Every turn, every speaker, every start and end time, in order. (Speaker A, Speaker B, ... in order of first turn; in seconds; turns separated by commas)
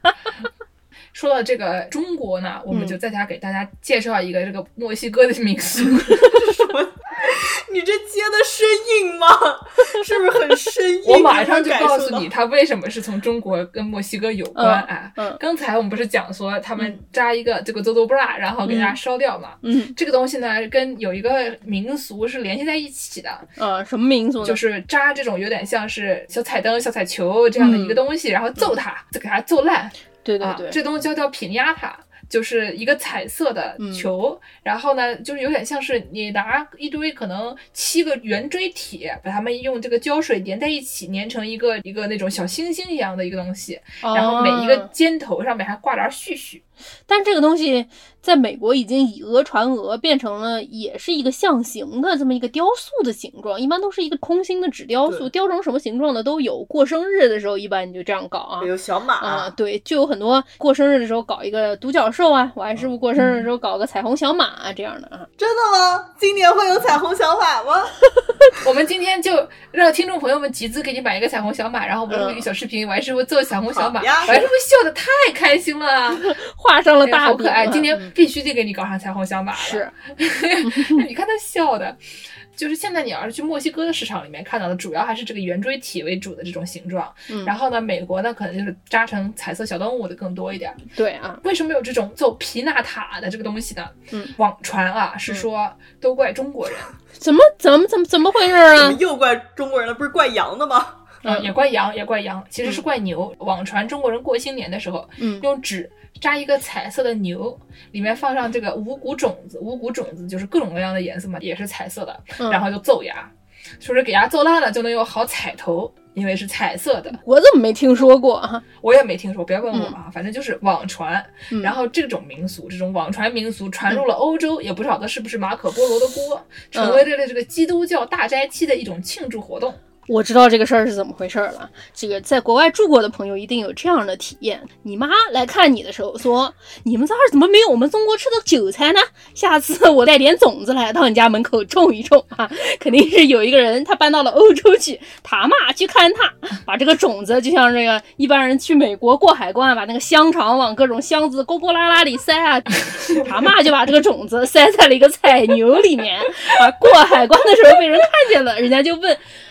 Speaker A: 1.1-6.5, Speaker B: 2.7-3.0, Speaker C: 6.1-12.3, Speaker A: 11.1-23.5, Speaker B: 14.6-15.4, Speaker B: 18.6-19.0, Speaker B: 19.6-19.9, Speaker B: 23.6-24.6, Speaker A: 24.4-46.6, Speaker B: 27.6-28.0, Speaker B: 30.2-30.8, Speaker B: 33.8-34.1, Speaker B: 44.0-44.9, Speaker B: 47.1-65.3, Speaker C: 58.6-59.5, Speaker A: 63.2-63.5, Speaker C: 65.4-68.0, Speaker A: 68.6-76.3, Speaker B: 72.1-72.5, Speaker C: 73.7-74.3, Speaker B: 76.1-78.1, Speaker A: 77.0-82.0, Speaker B: 79.6-79.9, Speaker B: 80.6-81.0, Speaker A: 82.6-90.8, Speaker B: 91.0-91.4, Speaker A: 91.4-96.9, Speaker B: 97.2-99.0, Speaker C: 98.8-101.1, Speaker B: 101.2-101.5, Speaker A: 101.2-117.2, Speaker B: 105.2-105.5, Speaker B: 112.4-112.7, Speaker B: 117.1-118.6, Speaker A: 118.8-129.8, Speaker B: 121.5-121.8, Speaker B: 126.7-127.1, Speaker B: 130.1-159.2